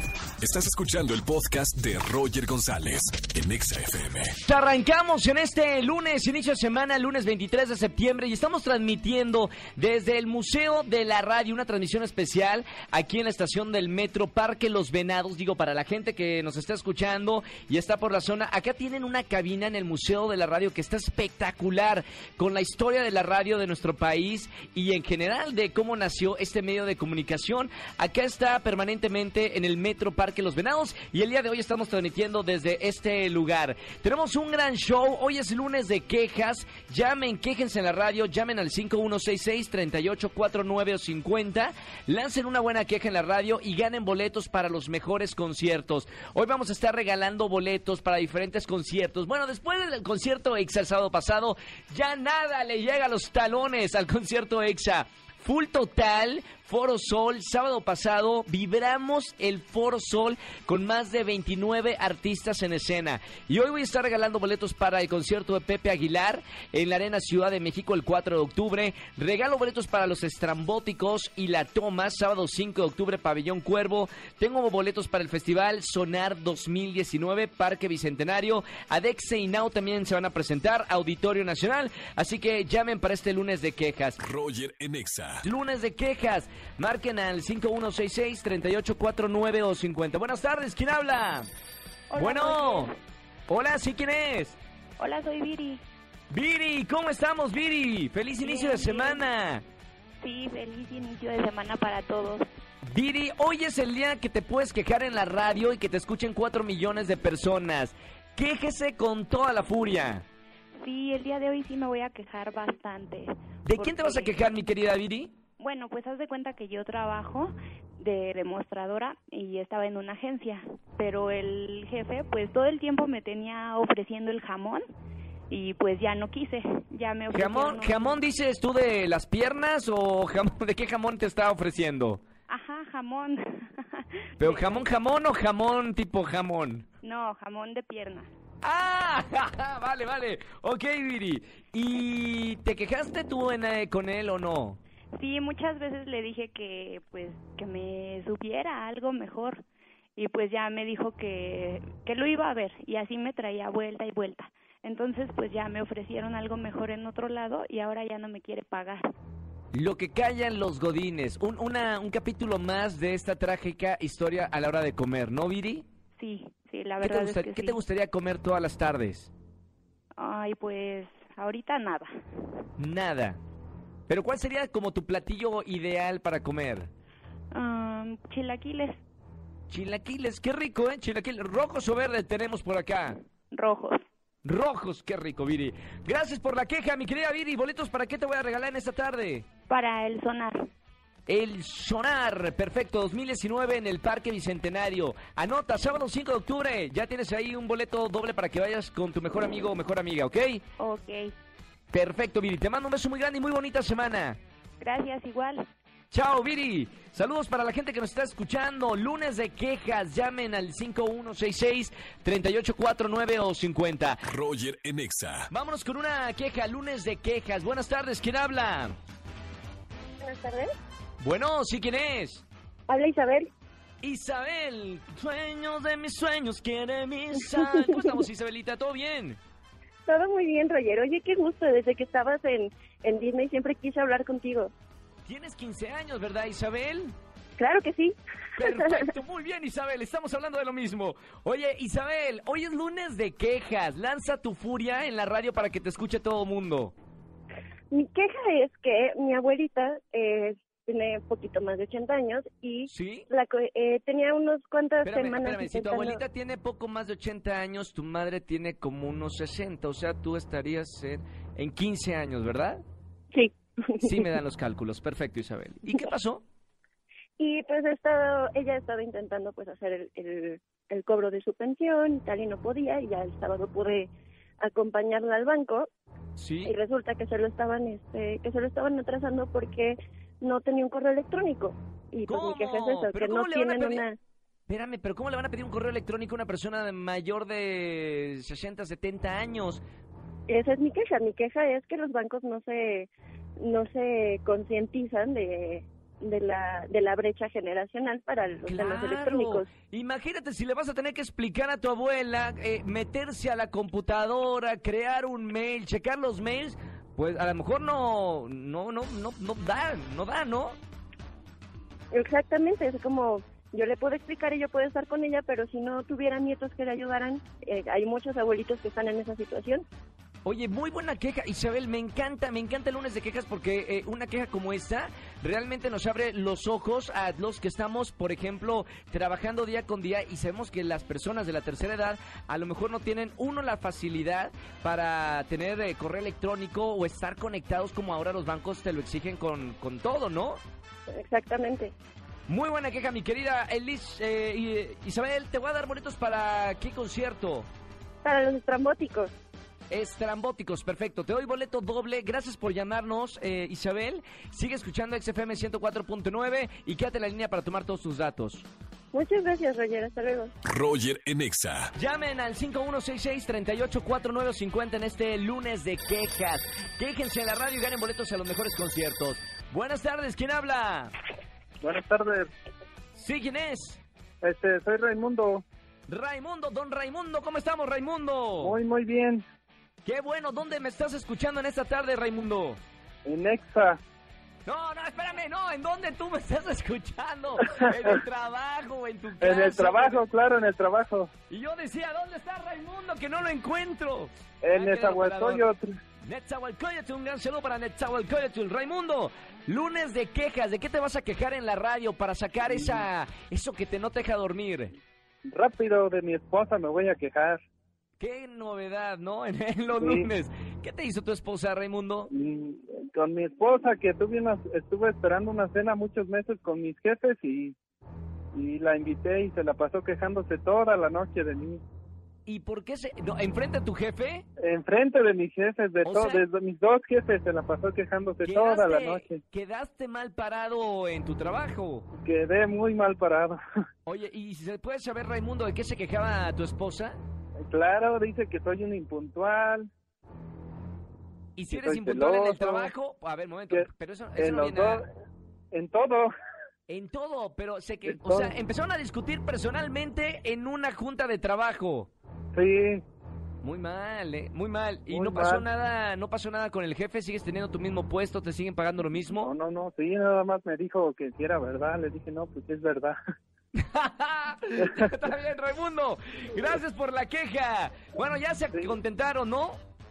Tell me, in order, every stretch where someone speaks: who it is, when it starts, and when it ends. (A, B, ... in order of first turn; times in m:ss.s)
0:00.4-0:04.2 A
0:04.4-1:24.2 B
1:25.4-1:31.5 B
1:32.1-1:32.9 C
1:32.2-1:32.9 B
1:33.5-1:34.6 B
1:35.0-1:35.8 C
1:36.3-1:39.6 B
1:38.4-1:39.2 C
1:40.2-1:42.4 C
1:42.8-1:50.2 B
1:50.8-1:54.5 C
1:53.7-1:55.3 B
1:55.6-2:04.8 C
2:05.5-2:08.2 C
2:07.3-2:12.2 B
2:12.5-2:14.9 C
2:14.4-2:16.8 B
2:17.0-2:18.3 C
2:18.6-2:24.8 B
2:25.1-2:29.6 C
2:30.2-2:39.0 C
2:39.7-2:45.9 B
2:46.2-2:47.8 C
2:47.0-2:49.3 B
2:50.2-2:52.1 C
2:52.8-2:53.4 B
2:54.1-2:56.9 B
2:57.5-2:59.0 C
2:59.7-3:03.2 B
3:03.5-3:04.0 C
3:04.4-3:09.5 B
3:09.7-3:10.6 C
3:11.3-3:20.6 B
3:20.8-3:21.3 C
3:21.9-3:24.4 B
3:24.8-3:25.6 C
3:26.1-3:34.3 B
3:34.3-3:34.6 A
3:35.5-3:39.0 B
3:40.2-3:40.7 D
3:41.2-3:42.4 B
3:42.9-3:43.4 D
3:44.0-3:49.4 B
3:50.1-3:54.7 D
3:55.2-3:57.1 B
3:57.6-3:58.1 D
3:58.6-4:06.9 B
3:58.7-3:58.9 D
4:07.9-4:16.2 D
4:12.9-4:13.3 B
4:15.0-4:22.8 B
4:23.3-4:24.0 D
4:24.0-4:26.4 B
4:27.4-4:34.1 D
4:34.6-4:35.9 D
4:36.4-4:36.7 B
4:36.6-4:44.2 D
4:42.3-4:44.0 B
4:44.7-4:49.8 B
4:50.5-4:53.1 D
4:53.6-4:59.6 D
4:58.6-5:10.8 B
5:12.1-5:19.8 D
5:20.4-5:40.6 B
5:41.1-5:41.9 D
5:42.5-5:47.7 B
5:48.2-5:49.3 D
5:49.9-5:58.7 B
5:59.1-6:00.5 D
6:02.0-6:11.1 B
6:11.8-6:12.5 E
6:13.1-6:14.0 B
6:14.4-6:15.6 E
6:16.1-6:18.8 B
6:18.6-6:19.4 E
6:20.0-6:22.8 B
6:23.2-6:24.0 E
6:24.6-6:30.2 B
6:29.4-6:31.3 E
6:31.5-6:35.7 B
6:34.6-6:36.0 E
6:36.2-6:44.9 B
6:42.7-6:43.0 E
6:45.4-6:47.6 E
6:48.2-6:52.3 B
6:49.9-6:50.3 E
6:52.3-6:57.8 E
6:58.5-7:01.8 E
7:02.4-7:04.4 B
7:04.6-7:09.4 E
7:06.0-7:06.4 B
7:08.4-7:12.1 B
7:12.1-7:13.6 E
7:14.0-7:17.2 B
7:17.6-7:19.9 E
7:21.6-7:25.0 B
7:21.7-7:22.9 E
7:23.7-7:25.0 E
7:25.7-7:26.3 E
7:26.9-7:32.1 B
7:28.0-7:28.5 E
7:32.5-7:33.0 E
7:33.6-7:39.5 B
7:35.1-7:35.6 E
7:39.3-7:43.2 E
7:43.8-7:49.8 B